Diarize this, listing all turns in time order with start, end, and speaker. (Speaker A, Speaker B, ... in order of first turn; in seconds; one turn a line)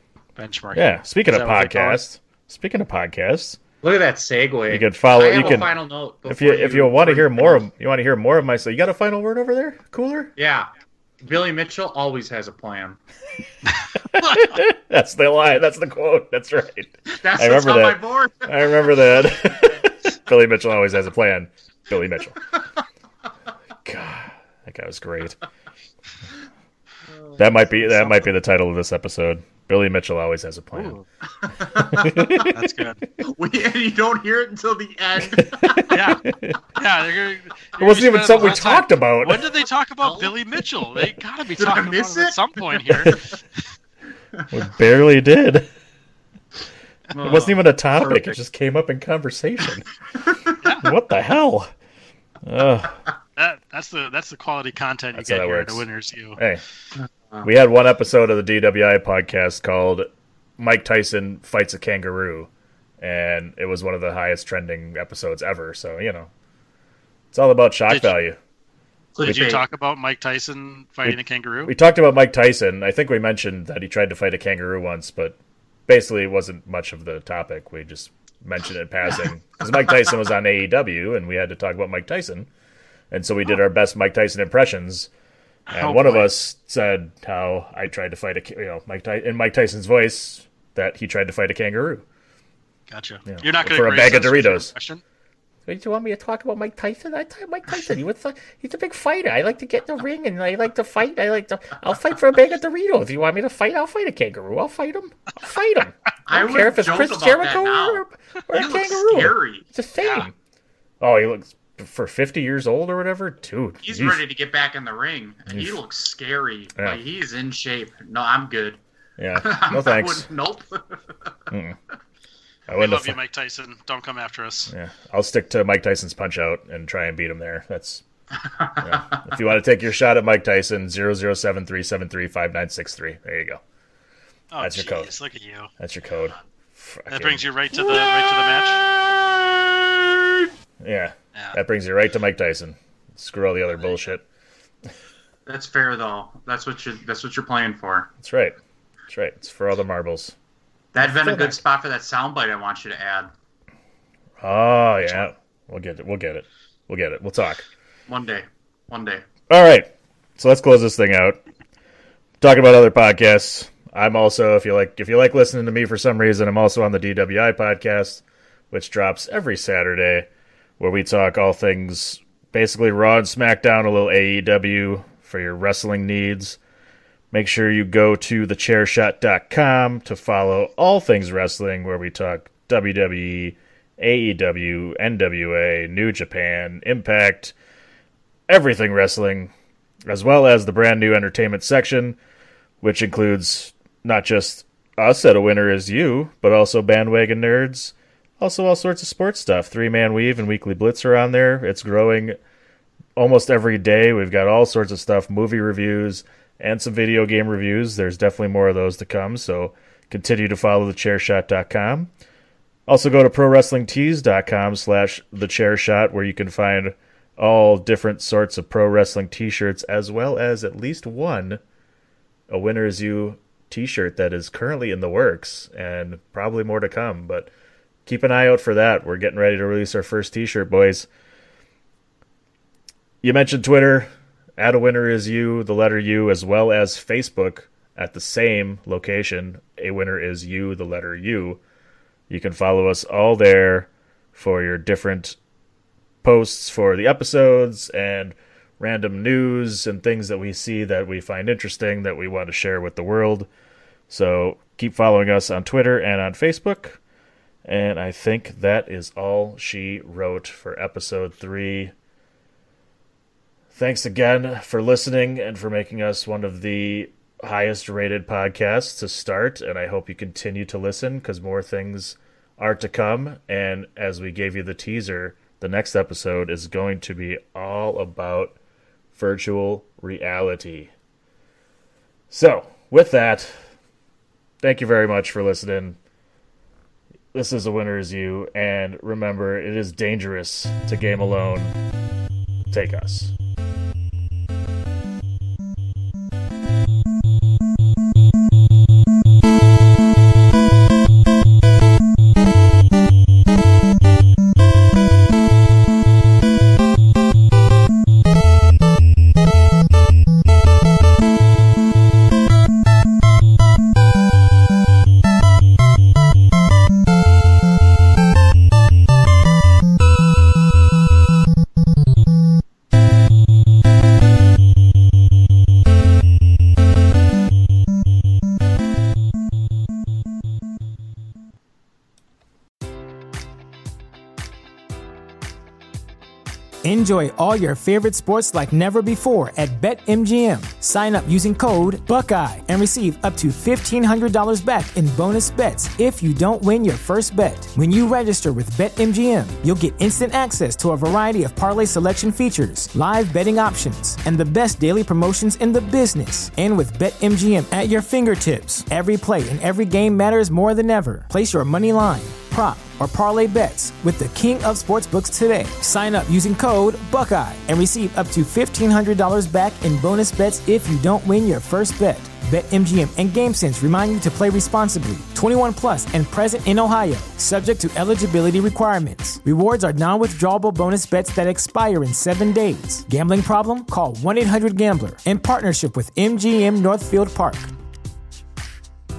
Speaker A: 0.4-2.0
Speaker B: 0.7-3.6
Speaker C: 3.8-7.6
Speaker B: 4.7-10.3
Speaker A: 5.4-5.6
Speaker C: 10.4-10.7
Speaker C: 11.2-13.0
Speaker B: 14.1-22.4
Speaker C: 17.1-18.9
Speaker B: 23.8-25.4
Speaker C: 27.1-28.3
Speaker B: 27.4-31.0
Speaker A: 30.7-31.0
Speaker C: 31.4-32.5
Speaker B: 31.9-32.5
Speaker A: 32.5-33.0
Speaker C: 33.2-36.1
Speaker B: 35.3-36.6
Speaker A: 35.9-36.2
Speaker A: 36.8-43.3
Speaker B: 37.8-39.5
Speaker C: 40.0-40.3
Speaker C: 41.6-43.2
Speaker B: 44.5-45.7
Speaker C: 47.1-48.3
Speaker B: 47.2-49.8
Speaker C: 50.2-50.5
Speaker A: 50.6-50.9
Speaker B: 50.8-51.7
Speaker B: 52.4-53.0
Speaker A: 53.4-56.4
Speaker B: 55.1-55.9
Speaker B: 56.4-56.6
Speaker C: 57.0-57.5
Speaker B: 57.4-66.3
Speaker B: 67.3-68.4
Speaker A: 67.9-68.1
Speaker C: 69.2-69.6
Speaker A: 69.2-71.7
Speaker B: 71.0-82.5
Speaker B: 83.1-85.1
Speaker B: 85.7-92.0
Speaker A: 85.7-86.3
Speaker A: 92.9-95.0
Speaker B: 93.3-94.7
Speaker B: 95.7-110.3
Speaker C: 106.3-109.7
Speaker A: 110.0-110.3
Speaker B: 111.0-114.2
Speaker C: 113.8-118.8
Speaker B: 115.5-115.8
Speaker B: 119.2-120.3
Speaker C: 119.3-121.0
Speaker B: 121.5-121.8
Speaker B: 122.7-123.2
Speaker A: 122.7-124.7
Speaker B: 124.7-128.0
Speaker C: 128.4-129.4
Speaker B: 128.8-133.6
Speaker A: 134.5-135.7
Speaker B: 134.6-135.1
Speaker B: 135.8-137.5
Speaker A: 137.1-138.9
Speaker B: 140.8-144.2
Speaker C: 145.5-148.1
Speaker B: 148.2-148.6
Speaker B: 149.1-150.3
Speaker C: 150.9-153.3
Speaker B: 151.0-151.6
Speaker B: 154.4-157.7
Speaker C: 158.1-159.2
Speaker B: 159.5-161.4
Speaker B: 162.4-170.3
Speaker B: 170.8-176.6
Speaker B: 177.3-187.5
Speaker B: 188.5-189.5
Speaker B: 190.1-192.2
Speaker B: 192.8-202.4
Speaker B: 203.2-212.1
Speaker B: 212.9-221.6
Speaker B: 222.5-227.5
Speaker B: 228.1-231.1
Speaker B: 233.2-241.6
Speaker B: 242.3-245.4
Speaker B: 246.2-253.5
Speaker B: 254.1-257.0
Speaker B: 257.6-261.9
Speaker B: 263.7-278.6
Speaker B: 279.1-280.9
Speaker B: 282.3-283.7
Speaker B: 284.6-286.0
Speaker B: 287.3-291.8
Speaker B: 292.7-293.3
Speaker D: 336.8-387.7